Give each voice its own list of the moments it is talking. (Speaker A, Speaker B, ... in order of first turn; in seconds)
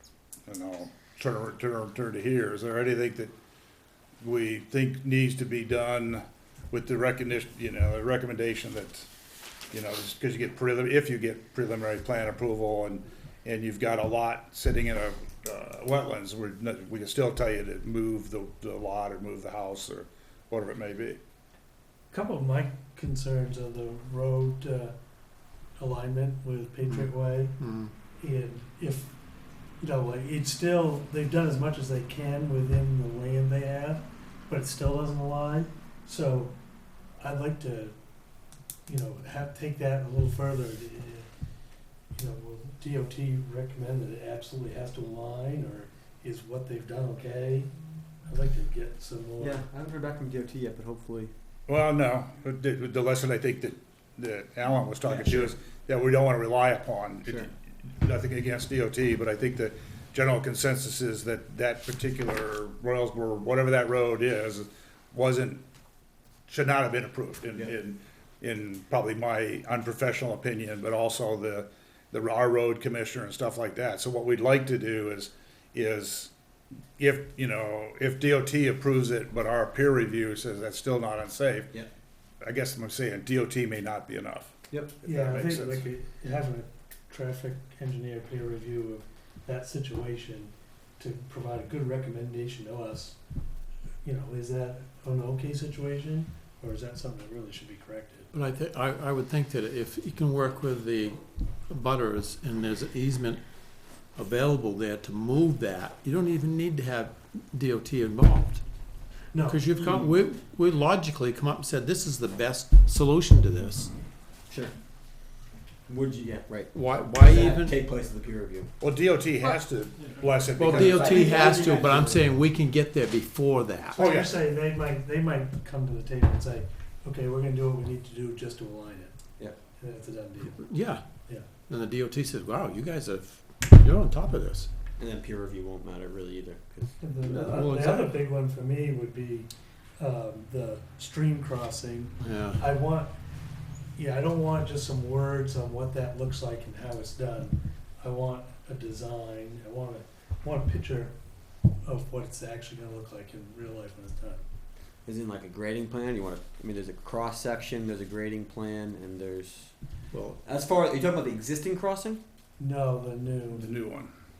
Speaker A: 0.5-3.3, 4.2-9.1, 9.7-21.2, 51.7-65.6, 66.5-76.3, 77.0-81.7, 82.4-85.8, 118.8-121.2, 124.0-124.4, 163.6-164.1
Speaker B: 22.1-24.9, 25.8-27.5, 28.2-29.2, 29.8-36.5, 37.2-37.9, 38.9-41.3, 42.1-47.7, 48.3-49.7, 85.0-93.2, 94.0-98.3, 109.3-109.6, 120.9-121.9, 123.9-129.2, 129.8-130.7, 137.0-143.1, 144.0-151.1, 151.8-154.4, 162.6-163.8
Speaker C: 26.9-27.9, 98.3-103.5, 104.1-108.6, 109.5-113.9, 116.7-117.8, 120.6-124.0, 130.6-131.1, 131.7-134.7, 137.4-138.2, 142.2-142.6, 160.1-160.4
Speaker D: 49.4-51.3, 55.0-55.5, 57.2-57.5, 84.7-85.0, 109.8-110.1, 114.5-114.8, 115.9-118.7, 120.6-122.4, 135.0-137.7, 155.1-159.7, 160.4-162.2